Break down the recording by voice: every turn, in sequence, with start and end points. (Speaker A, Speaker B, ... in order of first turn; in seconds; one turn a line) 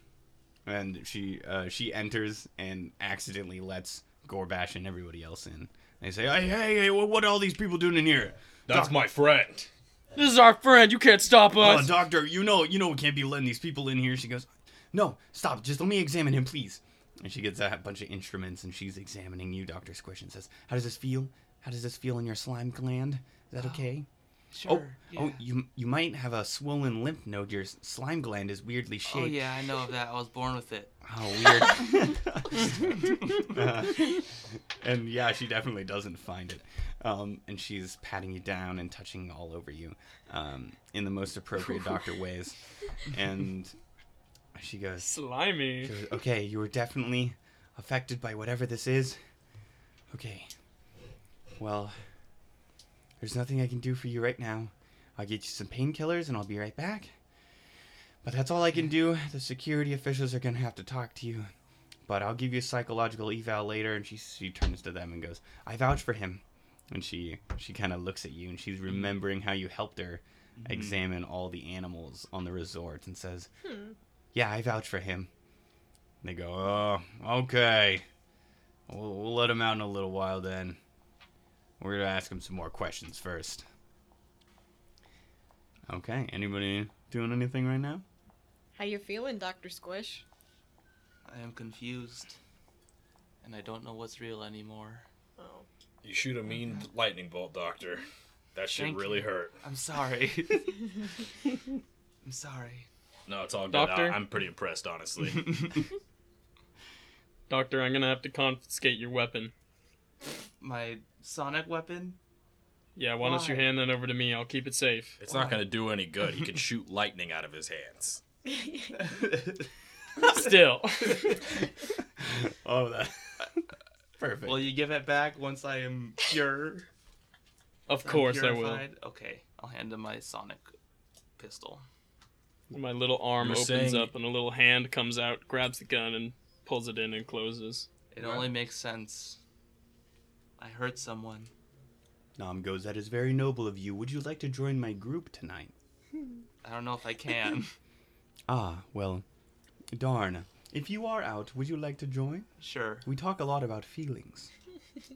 Speaker A: 0.7-9.0
Speaker B: 8.7-9.7
Speaker C: 10.2-11.9
Speaker A: 11.6-24.1
Speaker D: 24.5-25.4
Speaker A: 24.6-29.5
Speaker D: 29.1-31.0
Speaker A: 31.1-43.8
Speaker D: 32.9-33.5
Speaker A: 44.5-45.1
Speaker C: 45.0-45.9
Speaker A: 45.8-49.2
Speaker A: 50.1-50.5
Speaker A: 51.6-52.0
Speaker A: 53.2-57.2
Speaker A: 58.2-61.5
Speaker A: 62.1-73.5
Speaker D: 70.6-71.0
Speaker E: 73.6-74.0
Speaker A: 74.3-75.3
Speaker A: 76.2-78.1
Speaker A: 78.9-80.8
Speaker A: 81.8-83.7
Speaker A: 85.9-88.0
Speaker E: 88.8-90.2
Speaker D: 91.3-92.4
Speaker D: 93.4-95.1
Speaker E: 95.4-95.7
Speaker B: 96.0-99.6
Speaker D: 98.8-101.2
Speaker D: 102.2-102.9
Speaker B: 103.3-105.6
Speaker C: 103.7-104.2
Speaker C: 107.5-109.5
Speaker D: 110.6-112.2
Speaker C: 113.0-115.2
Speaker D: 113.2-113.7
Speaker B: 115.2-118.2
Speaker D: 115.3-115.6
Speaker E: 118.5-119.0
Speaker D: 118.9-119.7
Speaker C: 120.2-121.5
Speaker A: 122.2-123.6
Speaker A: 124.2-124.7
Speaker D: 124.4-126.9
Speaker C: 127.9-128.8
Speaker D: 128.0-130.7
Speaker D: 131.4-131.8
Speaker C: 132.7-137.9
Speaker B: 133.4-134.1
Speaker D: 138.1-139.4
Speaker D: 140.6-141.5
Speaker A: 142.4-145.7
Speaker D: 146.6-147.8
Speaker A: 148.5-149.2
Speaker A: 149.9-152.5
Speaker D: 152.6-153.1
Speaker A: 153.0-154.5